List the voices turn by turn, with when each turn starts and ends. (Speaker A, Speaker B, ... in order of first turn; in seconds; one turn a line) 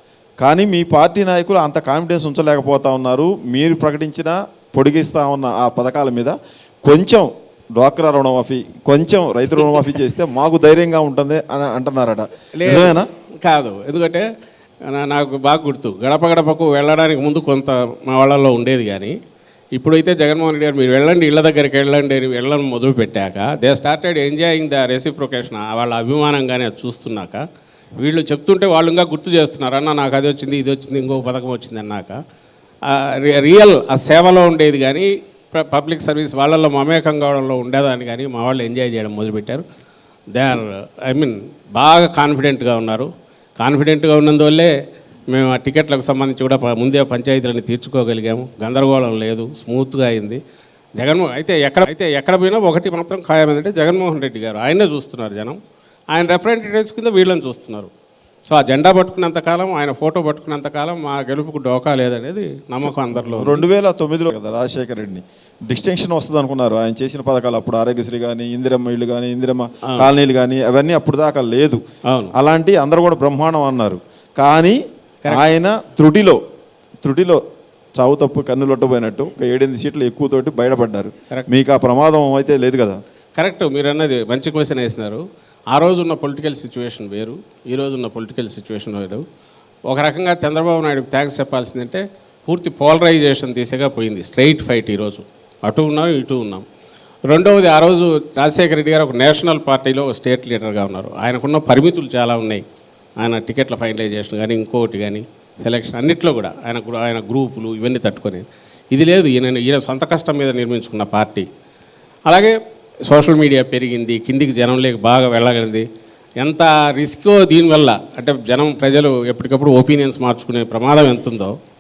Speaker A: 0.4-13.1
Speaker B: 12.6-14.3
Speaker B: 14.9-19.1
Speaker B: 19.8-27.4
Speaker B: 28.0-32.2
Speaker B: 32.9-39.6
Speaker B: 40.4-43.1
Speaker B: 43.6-44.7
Speaker B: 45.3-50.4
Speaker B: 51.0-55.6
Speaker B: 56.1-57.9
Speaker B: 58.5-63.6
Speaker A: 62.9-71.8
Speaker B: 72.1-72.3
Speaker A: 72.3-76.4
Speaker A: 77.0-77.4
Speaker A: 78.0-83.0
Speaker B: 83.4-89.2
Speaker B: 89.9-96.7
Speaker B: 97.3-102.6
Speaker B: 103.2-111.5
Speaker B: 113.1-115.8
Speaker B: 116.4-121.5